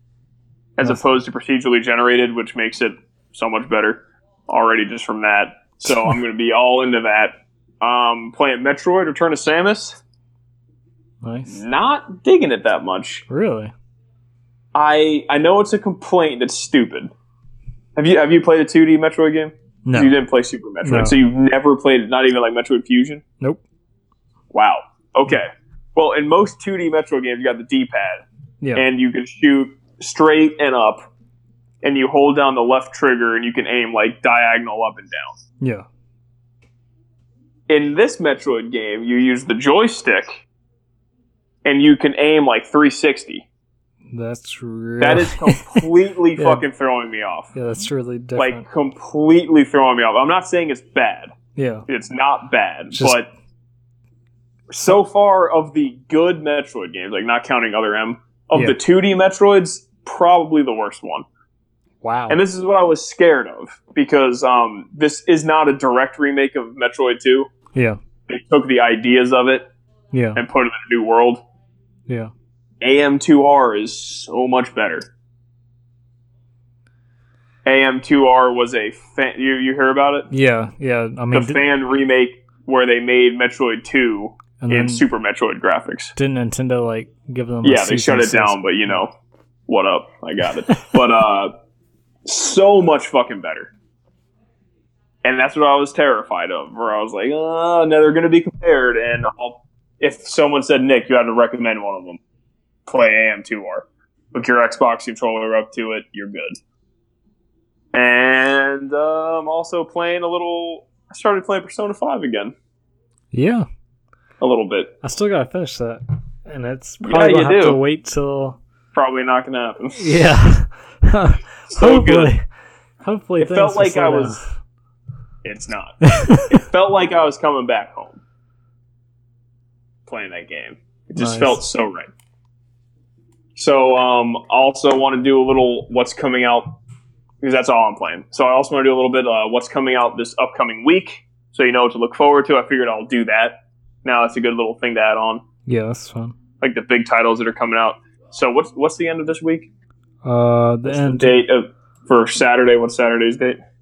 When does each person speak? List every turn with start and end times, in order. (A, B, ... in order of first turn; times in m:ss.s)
0:00.8-0:10.0 A
0:11.2-0:11.6 B
0:11.5-0:13.2 A
0:13.3-0:13.7 B
0:14.7-0:17.1 A
0:18.0-0:23.2 A
0:19.8-0:20.2 B
0:20.8-0:21.2 B
0:24.5-0:28.2 A
0:28.7-0:31.1 A
0:31.8-0:35.4 A
0:35.6-0:35.8 B
0:37.7-0:40.4 A
0:41.6-0:43.4 A
0:44.1-0:45.8 B
0:45.0-0:47.5 A
0:46.4-0:46.6 B
0:47.5-0:48.6 B
0:48.4-0:51.3 A
0:51.6-0:51.9 B
0:51.9-0:53.3 A
0:52.9-0:53.2 B
0:54.7-1:01.2 A
1:02.0-1:02.4 B
1:02.3-1:07.5 A
1:08.3-1:09.7 A
1:10.1-1:10.4 B
1:10.3-1:11.4 A
1:12.8-1:15.1 A
1:17.6-1:20.3 A
1:20.3-1:21.6 B
1:21.3-1:26.1 A
1:24.6-1:25.0 B
1:26.2-1:29.0 B
1:27.6-1:29.1 A
1:29.7-1:31.5 A
1:32.2-1:33.7 A
1:35.2-1:42.2 A
1:42.9-1:46.6 A
1:47.9-1:52.5 A
1:53.3-1:53.6 B
1:54.4-1:54.9 A
1:55.0-1:58.6 B
1:57.0-1:57.8 A
1:58.9-2:00.2 A
2:00.0-2:02.4 B
2:01.7-2:02.3 A
2:03.0-2:04.4 B
2:03.4-2:04.4 A
2:05.4-2:08.2 A
2:06.0-2:06.6 B
2:10.1-2:12.1 A
2:11.2-2:11.6 B
2:13.6-2:16.8 A
2:17.4-2:25.4 A
2:25.6-2:26.4 B
2:26.6-2:29.7 A
2:30.2-2:31.3 B
2:30.8-2:33.6 A